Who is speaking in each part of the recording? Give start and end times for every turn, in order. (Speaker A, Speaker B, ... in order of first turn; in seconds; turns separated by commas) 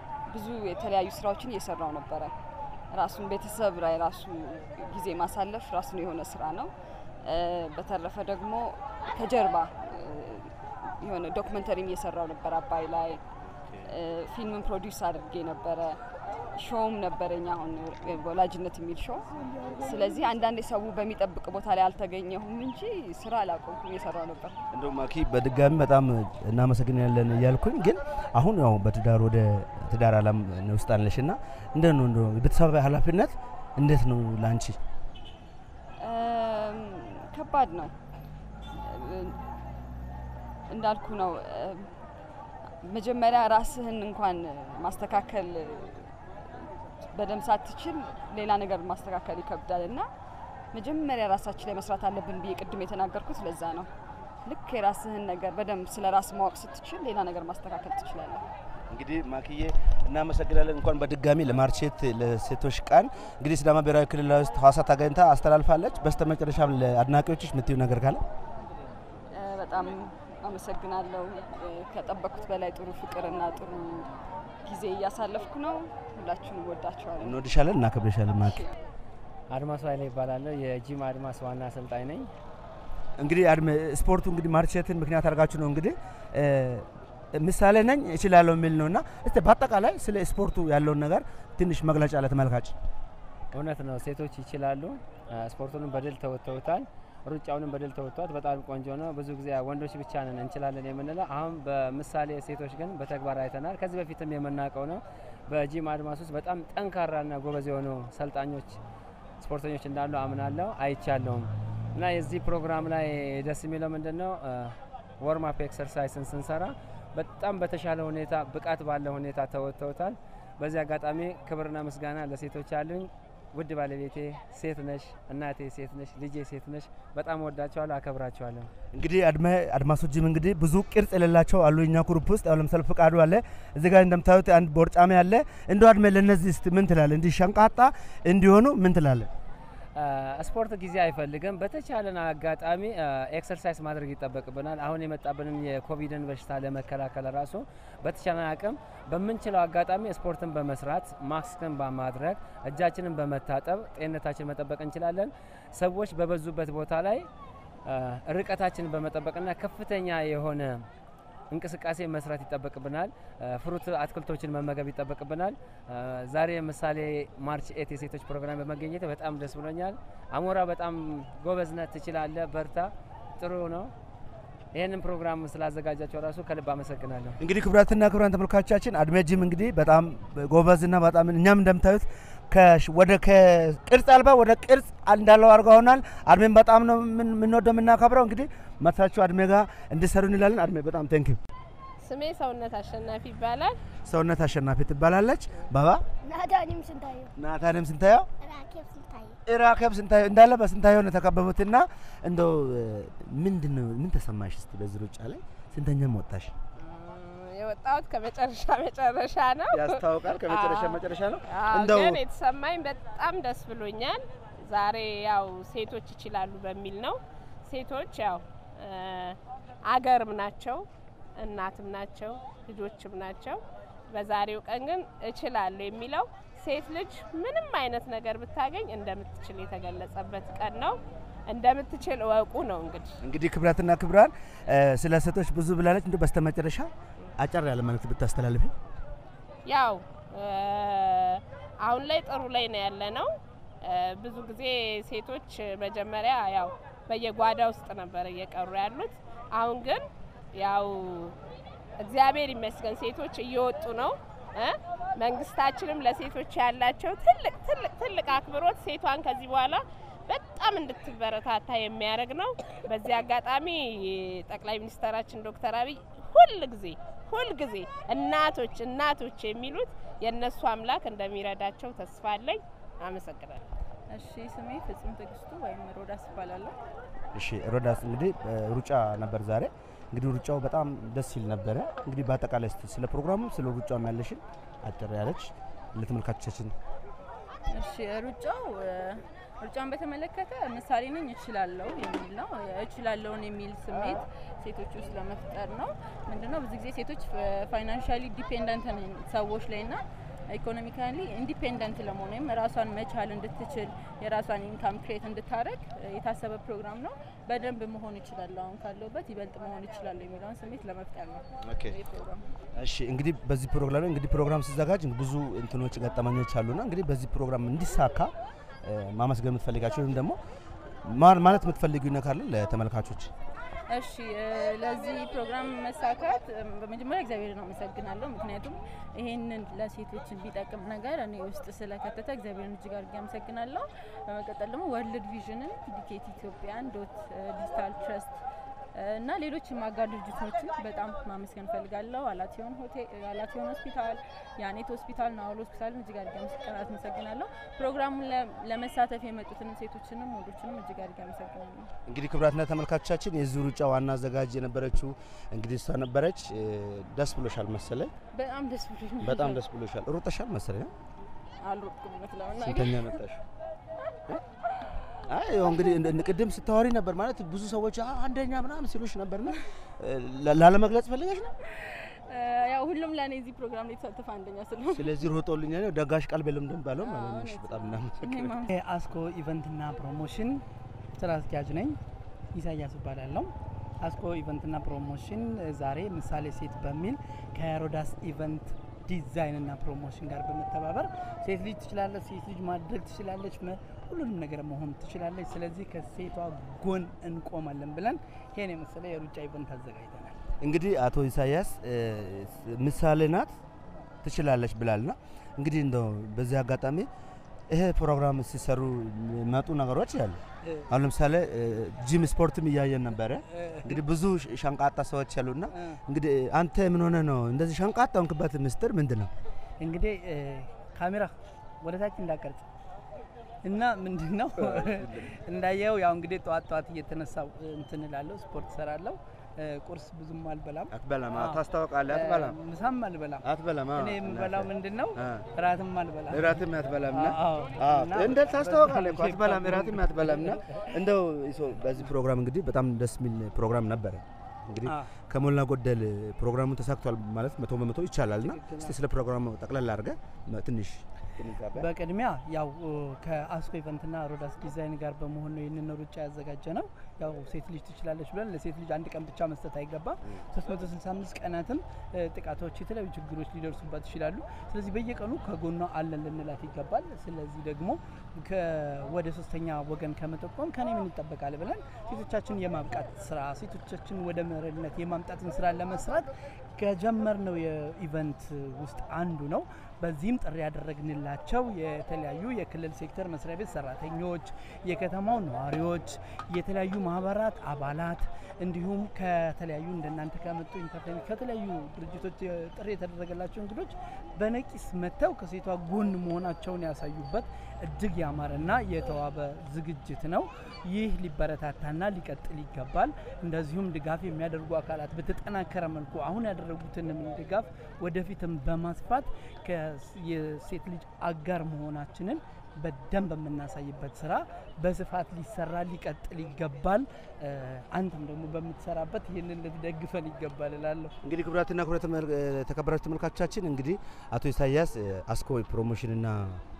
Speaker A: 0.3-2.3, Speaker A: 2.9-6.7, Speaker A: 7.2-13.2, Speaker B: 13.4-13.9, Speaker A: 13.8-16.0, Speaker A: 16.6-24.6, Speaker B: 24.7-34.8, Speaker A: 36.0-37.9, Speaker A: 38.8-39.4, Speaker A: 40.7-41.9, Speaker A: 42.8-46.1, Speaker A: 47.1-50.0, Speaker A: 50.7-53.9, Speaker A: 54.4-58.5, Speaker B: 58.9-68.2, Speaker A: 69.3-74.1, Speaker A: 74.6-77.4, Speaker B: 77.2-78.6, Speaker C: 79.5-82.3, Speaker B: 83.2-92.7, Speaker C: 93.5-108.8, Speaker C: 109.4-128.7, Speaker B: 128.9-139.3, Speaker C: 139.9-157.3, Speaker C: 157.8-160.8, Speaker C: 161.5-173.9, Speaker C: 174.7-177.4, Speaker B: 177.4-191.4, Speaker D: 192.0-193.8, Speaker B: 194.0-196.0, Speaker E: 196.2-197.3, Speaker B: 197.3-198.3, Speaker E: 198.4-199.4, Speaker B: 199.4-206.5, Speaker D: 206.8-220.8, Speaker B: 209.7-212.2, Speaker D: 221.4-233.2, Speaker B: 233.2-238.7, Speaker D: 239.7-243.3, Speaker D: 243.8-250.0, Speaker D: 250.5-251.3, Speaker D: 252.0-273.6, Speaker F: 274.1-276.7, Speaker B: 277.3-286.7, Speaker F: 287.7-312.4, Speaker B: 293.9-294.2, Speaker B: 311.6-312.0, Speaker B: 312.8-318.3, Speaker B: 318.8-320.4, Speaker B: 321.0-323.3, Speaker F: 323.9-338.4, Speaker F: 338.9-351.9, Speaker B: 352.1-358.1, Speaker F: 358.3-359.6, Speaker B: 359.2-360.9, Speaker F: 361.6-363.1, Speaker B: 362.6-363.4, Speaker B: 365.3-371.5, Speaker F: 371.7-375.1, Speaker B: 374.9-378.5, Speaker F: 377.0-378.7, Speaker G: 378.7-380.6, Speaker G: 381.2-381.9, Speaker G: 382.5-383.5, Speaker G: 384.0-400.3, Speaker B: 400.6-403.5, Speaker B: 404.2-407.1, Speaker B: 407.7-419.3, Speaker G: 413.5-413.9, Speaker G: 419.8-422.6, Speaker G: 423.6-433.4, Speaker B: 424.6-425.3, Speaker B: 430.9-432.6, Speaker B: 433.4-435.5, Speaker G: 434.0-440.8, Speaker B: 436.3-451.9, Speaker G: 448.4-448.9, Speaker G: 451.8-521.1, Speaker B: 521.2-526.6